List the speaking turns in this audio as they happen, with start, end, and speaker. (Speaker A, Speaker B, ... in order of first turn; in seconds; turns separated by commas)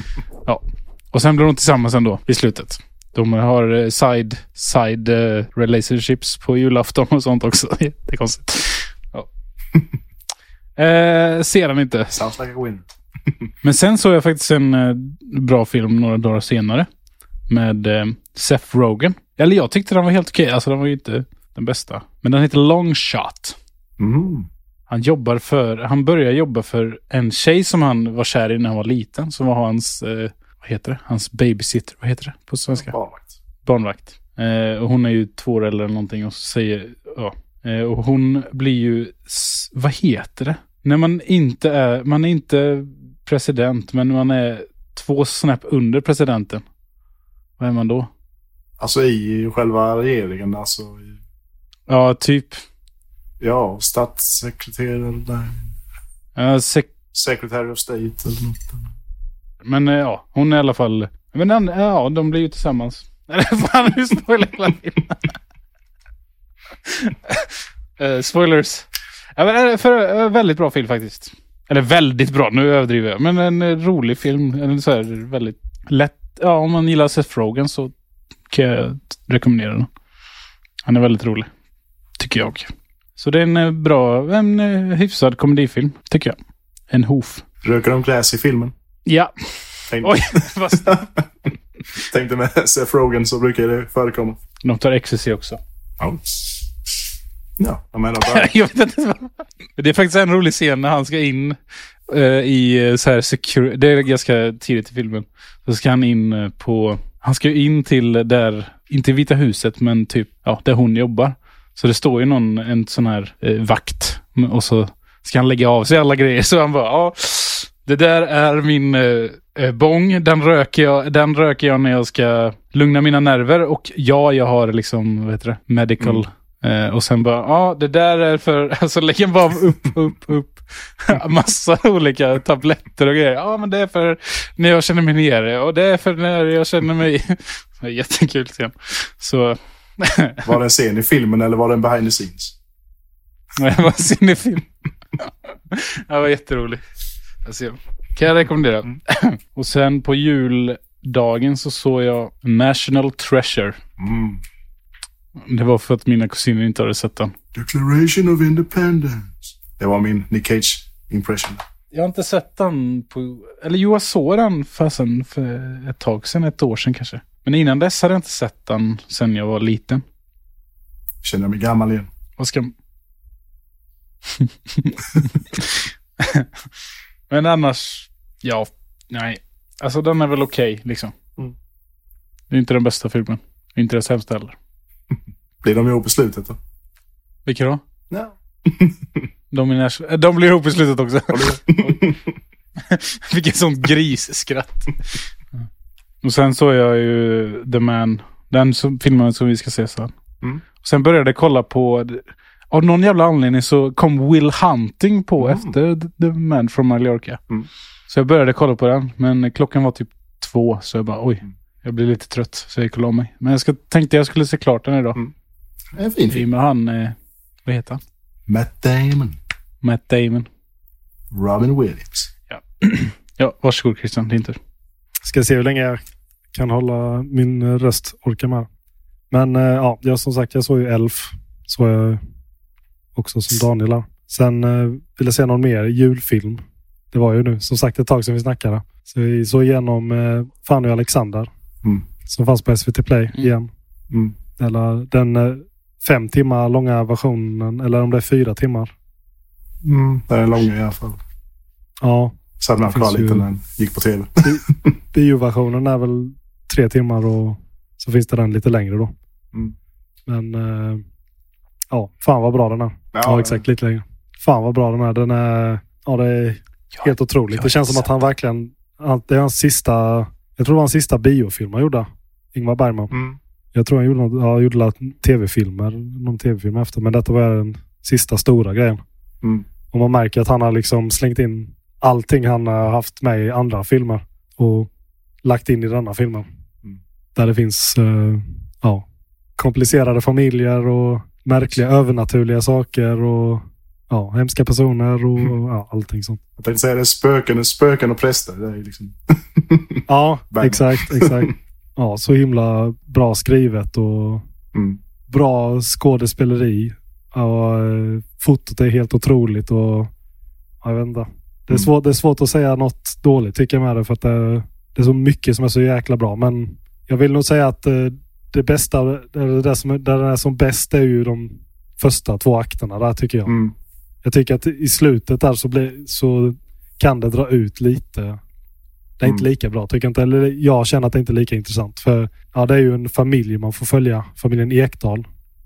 Speaker A: 0.5-9.3, Speaker A: 10.8-12.2, Speaker B: 12.1-12.8, Speaker A: 13.6-16.9, Speaker A: 17.5-23.6, Speaker B: 24.0-24.5, Speaker A: 24.9-32.9, Speaker B: 32.8-33.3, Speaker A: 33.6-46.6, Speaker A: 47.6-48.1, Speaker B: 48.8-51.2, Speaker A: 51.9-52.6, Speaker B: 53.4-55.7, Speaker A: 56.4-56.9, Speaker B: 57.1-58.9, Speaker A: 59.6-65.3, Speaker A: 66.8-77.9, Speaker A: 78.5-79.9, Speaker A: 80.8-81.5, Speaker A: 82.2-86.4, Speaker A: 86.9-87.4, Speaker B: 87.6-88.7, Speaker A: 89.1-91.1, Speaker B: 89.9-91.2, Speaker B: 92.0-94.4, Speaker A: 94.6-95.6, Speaker B: 96.0-96.6, Speaker B: 97.6-98.5, Speaker A: 98.3-101.6, Speaker A: 102.1-140.5, Speaker B: 140.4-142.6, Speaker A: 143.6-144.7, Speaker A: 145.2-146.8, Speaker A: 147.4-153.8, Speaker B: 154.0-154.4, Speaker A: 155.4-157.3, Speaker B: 157.5-161.6, Speaker A: 161.9-170.0, Speaker B: 171.2-172.1, Speaker A: 172.4-172.7, Speaker A: 174.3-176.5, Speaker A: 177.3-181.1, Speaker A: 182.5-184.6, Speaker B: 185.6-186.6, Speaker A: 187.5-187.8, Speaker B: 188.1-189.2, Speaker A: 189.5-192.0, Speaker B: 191.3-192.3, Speaker A: 192.8-195.2, Speaker A: 196.2-200.1, Speaker A: 200.8-207.4, Speaker B: 205.4-205.8, Speaker A: 208.1-215.2, Speaker B: 215.9-216.4, Speaker A: 216.3-218.0, Speaker B: 218.5-219.4, Speaker A: 219.8-220.5, Speaker B: 221.3-222.3, Speaker A: 222.5-224.6, Speaker C: 225.2-226.0, Speaker C: 226.5-228.7, Speaker C: 229.3-232.2, Speaker C: 233.2-241.5, Speaker C: 242.3-243.7, Speaker B: 244.1-244.4, Speaker C: 244.6-248.9, Speaker B: 249.8-251.2, Speaker C: 252.0-253.4, Speaker B: 252.6-254.9, Speaker C: 254.4-259.1, Speaker C: 260.3-261.0, Speaker C: 261.9-273.1, Speaker B: 263.1-263.6, Speaker A: 266.9-268.1, Speaker B: 273.1-273.4, Speaker C: 273.7-279.0, Speaker C: 279.9-284.9, Speaker C: 285.4-286.5, Speaker C: 287.4-289.1, Speaker C: 289.6-296.4, Speaker B: 296.6-301.5, Speaker C: 300.1-304.4, Speaker B: 304.7-305.0, Speaker C: 305.3-310.1, Speaker C: 310.8-323.6, Speaker B: 323.5-323.7, Speaker C: 324.2-328.4, Speaker C: 329.2-335.3